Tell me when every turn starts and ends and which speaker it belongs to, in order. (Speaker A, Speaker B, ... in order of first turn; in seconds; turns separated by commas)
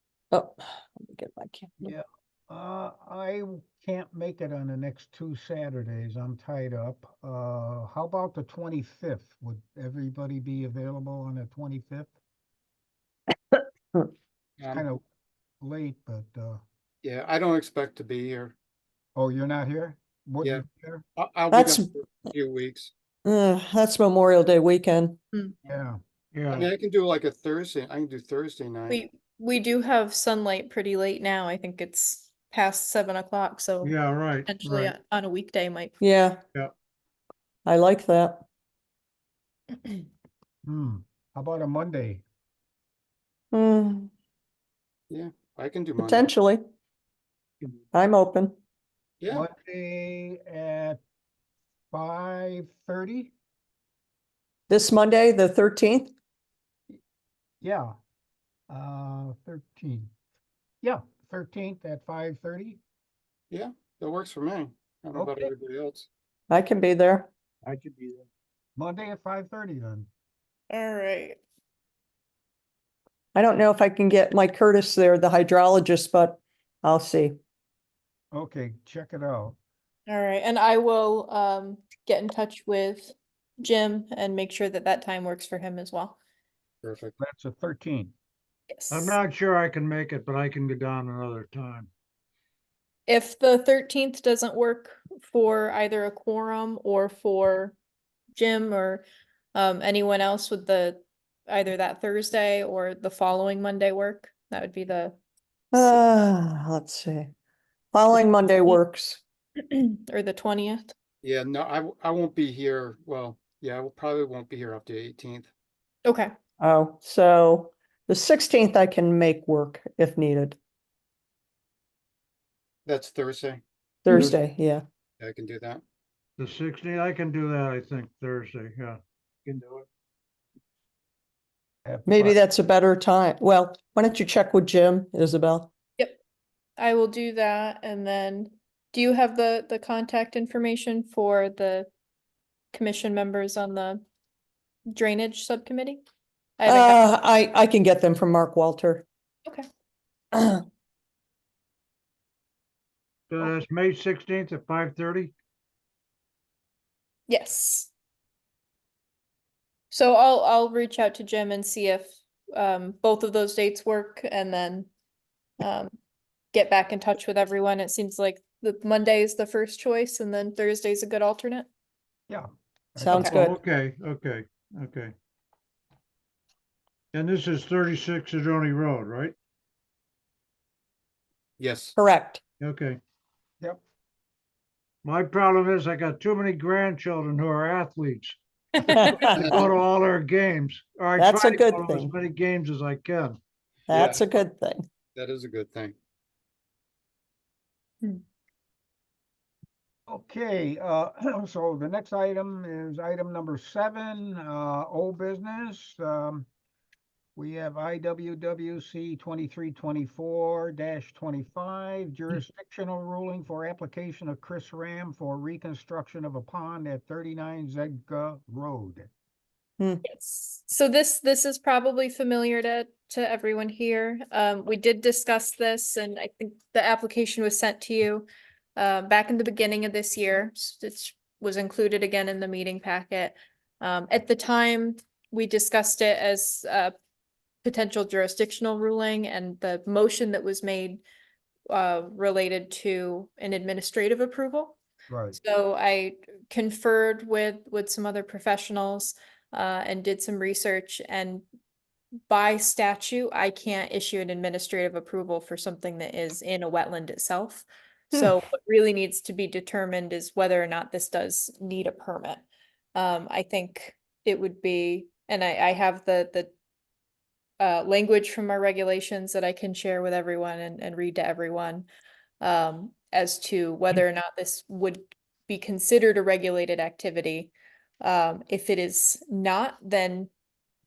Speaker A: 0.3-1.9, Speaker B: 1.8-12.1, Speaker A: 13.6-14.1, Speaker C: 14.6-14.8, Speaker B: 14.7-15.0, Speaker B: 15.6-16.6, Speaker C: 17.0-18.6, Speaker B: 19.1-21.0, Speaker C: 21.1-22.9, Speaker A: 21.5-21.9, Speaker A: 23.2-25.2, Speaker B: 25.7-26.0, Speaker D: 26.3-26.7, Speaker C: 26.5-29.0, Speaker E: 28.9-36.0, Speaker D: 33.8-34.9, Speaker A: 36.0-36.4, Speaker A: 37.6-38.4, Speaker B: 40.6-42.2, Speaker A: 43.5-44.1, Speaker C: 45.1-46.3, Speaker A: 46.0-46.6, Speaker A: 47.9-48.5, Speaker C: 49.2-49.5, Speaker B: 49.3-51.0, Speaker B: 51.9-53.3, Speaker A: 54.7-56.1, Speaker B: 57.6-57.9, Speaker B: 58.7-60.1, Speaker B: 60.8-62.8, Speaker C: 63.5-66.1, Speaker B: 65.1-65.5, Speaker A: 66.5-67.3, Speaker D: 67.6-68.2, Speaker B: 68.8-70.1, Speaker E: 70.7-71.4, Speaker A: 73.3-77.4, Speaker B: 78.3-79.5, Speaker E: 80.1-86.2, Speaker C: 86.8-87.1, Speaker B: 87.2-88.1, Speaker E: 88.7-89.2, Speaker D: 88.9-91.9, Speaker E: 93.1-97.8, Speaker E: 98.3-105.2, Speaker A: 105.7-107.3, Speaker A: 107.9-109.2, Speaker E: 108.1-108.8, Speaker E: 109.6-110.9, Speaker C: 111.2-115.5, Speaker E: 116.0-116.3, Speaker A: 116.6-120.6, Speaker C: 122.8-123.6, Speaker A: 124.0-124.8, Speaker C: 125.2-125.8, Speaker D: 126.4-129.9, Speaker B: 131.8-132.3, Speaker A: 132.1-135.7, Speaker E: 136.8-141.9, Speaker E: 142.7-144.0, Speaker E: 144.9-146.0, Speaker E: 146.6-147.1, Speaker A: 146.7-149.0, Speaker A: 150.3-150.6, Speaker D: 153.3-155.3, Speaker E: 157.3-157.9, Speaker E: 159.9-164.9, Speaker E: 165.6-165.9, Speaker E: 166.5-171.7, Speaker B: 172.3-173.5, Speaker A: 173.0-173.6, Speaker D: 173.2-175.1, Speaker D: 177.1-179.3, Speaker C: 181.6-181.9, Speaker A: 182.0-182.4, Speaker D: 182.6-183.0, Speaker D: 185.0-188.4, Speaker E: 188.7-189.1, Speaker A: 188.9-189.5, Speaker D: 188.9-193.4, Speaker A: 191.2-192.1, Speaker C: 193.9-194.3, Speaker A: 193.9-194.8, Speaker C: 195.1-195.9, Speaker B: 200.1-206.5, Speaker B: 207.3-219.1, Speaker E: 220.0-236.9, Speaker E: 237.6-241.0, Speaker E: 241.7-244.8, Speaker B: 245.1-245.3, Speaker E: 245.3-251.4, Speaker E: 252.3-262.4, Speaker A: 258.1-258.4, Speaker E: 262.9-266.5, Speaker E: 267.6-271.9, Speaker E: 272.4-280.3